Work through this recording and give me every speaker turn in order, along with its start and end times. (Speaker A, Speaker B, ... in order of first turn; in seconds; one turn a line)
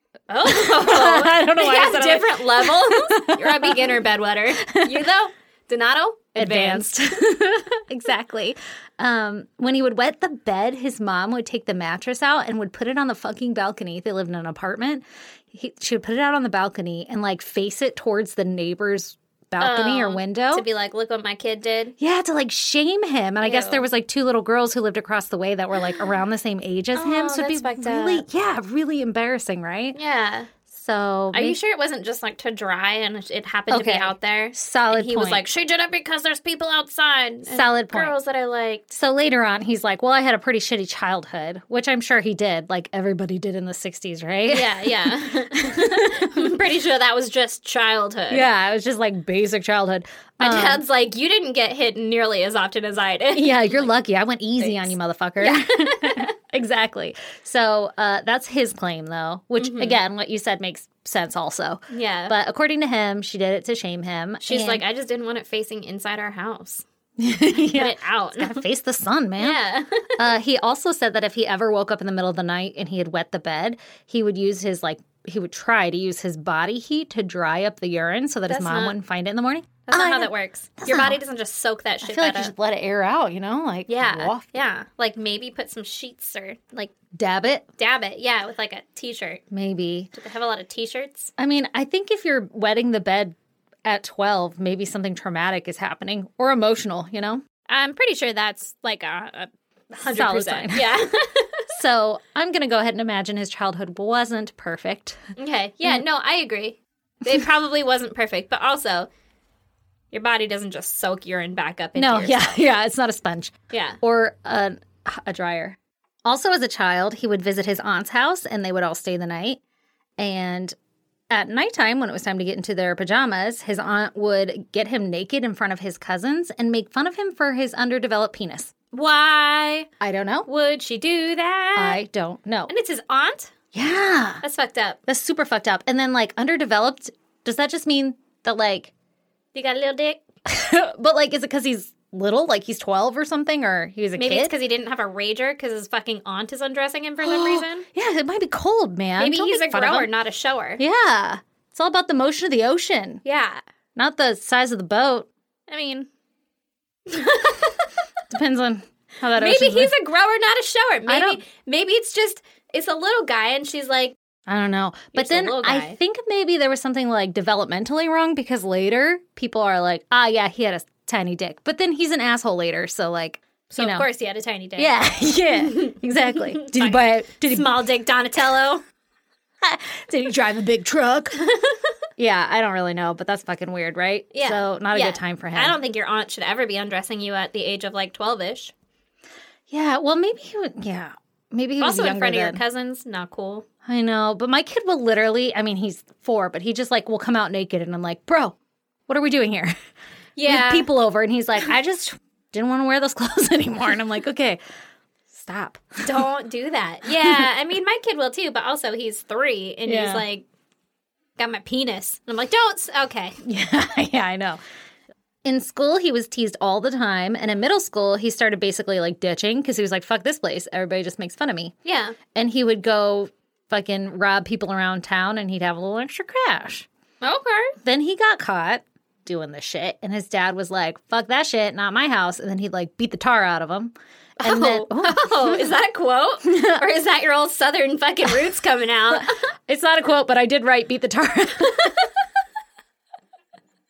Speaker A: 0.3-7.2
Speaker B: 0.5-4.0
Speaker B: 4.7-5.0
Speaker B: 6.4-20.7
Speaker A: 19.6-21.9
Speaker B: 22.0-30.0
Speaker A: 23.4-23.9
Speaker A: 26.9-28.2
Speaker A: 29.9-30.5
Speaker B: 30.7-31.6
Speaker A: 31.3-38.9
Speaker B: 33.7-35.5
Speaker B: 37.5-38.2
Speaker B: 38.9-46.6
Speaker A: 44.5-48.5
Speaker B: 48.3-50.8
Speaker A: 50.4-53.9
Speaker B: 53.4-64.8
Speaker A: 54.6-56.3
Speaker A: 59.6-60.0
Speaker A: 61.9-62.3
Speaker A: 64.4-66.8
Speaker B: 67.2-69.6
Speaker A: 67.6-68.6
Speaker A: 69.4-70.2
Speaker B: 70.2-81.2
Speaker A: 78.5-79.0
Speaker A: 79.9-82.5
Speaker B: 82.0-84.6
Speaker A: 83.9-86.9
Speaker B: 87.1-87.7
Speaker A: 87.8-89.4
Speaker B: 89.5-90.1
Speaker A: 90.1-91.3
Speaker B: 91.4-93.3
Speaker B: 93.9-97.4
Speaker A: 97.7-101.7
Speaker B: 99.9-101.0
Speaker B: 101.7-105.2
Speaker A: 105.4-109.1
Speaker A: 110.1-112.7
Speaker B: 112.0-119.6
Speaker A: 113.7-114.0
Speaker B: 120.2-120.8
Speaker B: 121.3-128.7
Speaker A: 128.9-129.9
Speaker B: 130.0-130.5
Speaker A: 130.5-132.0
Speaker B: 131.8-132.7
Speaker A: 132.7-133.5
Speaker B: 133.7-134.4
Speaker A: 134.4-135.0
Speaker B: 135.1-138.9
Speaker A: 139.5-140.2
Speaker B: 140.5-144.5
Speaker A: 144.2-147.9
Speaker B: 147.2-150.1
Speaker A: 149.2-150.8
Speaker B: 150.8-153.2
Speaker A: 153.2-153.6
Speaker B: 154.0-155.3
Speaker A: 155.7-156.1
Speaker A: 157.1-157.9
Speaker B: 158.3-159.9
Speaker A: 159.4-164.2
Speaker B: 161.1-161.4
Speaker B: 164.5-174.1
Speaker A: 165.1-166.0
Speaker A: 173.7-175.0
Speaker B: 174.8-177.9
Speaker A: 175.6-178.8
Speaker B: 179.6-181.4
Speaker A: 181.4-181.8
Speaker B: 182.2-185.8
Speaker A: 184.3-188.7
Speaker B: 189.7-192.6
Speaker A: 191.8-193.7
Speaker B: 193.8-198.6
Speaker B: 199.1-199.8
Speaker A: 200.4-200.9
Speaker B: 200.4-204.6
Speaker B: 205.3-206.3
Speaker A: 206.0-210.4
Speaker B: 207.1-207.5
Speaker B: 209.9-210.2
Speaker A: 211.4-213.4
Speaker B: 213.4-214.6
Speaker B: 215.4-221.7
Speaker A: 221.8-222.2
Speaker B: 222.3-226.9
Speaker A: 227.2-227.8
Speaker B: 227.8-235.6
Speaker A: 234.4-239.4
Speaker B: 236.4-236.8
Speaker B: 239.7-241.9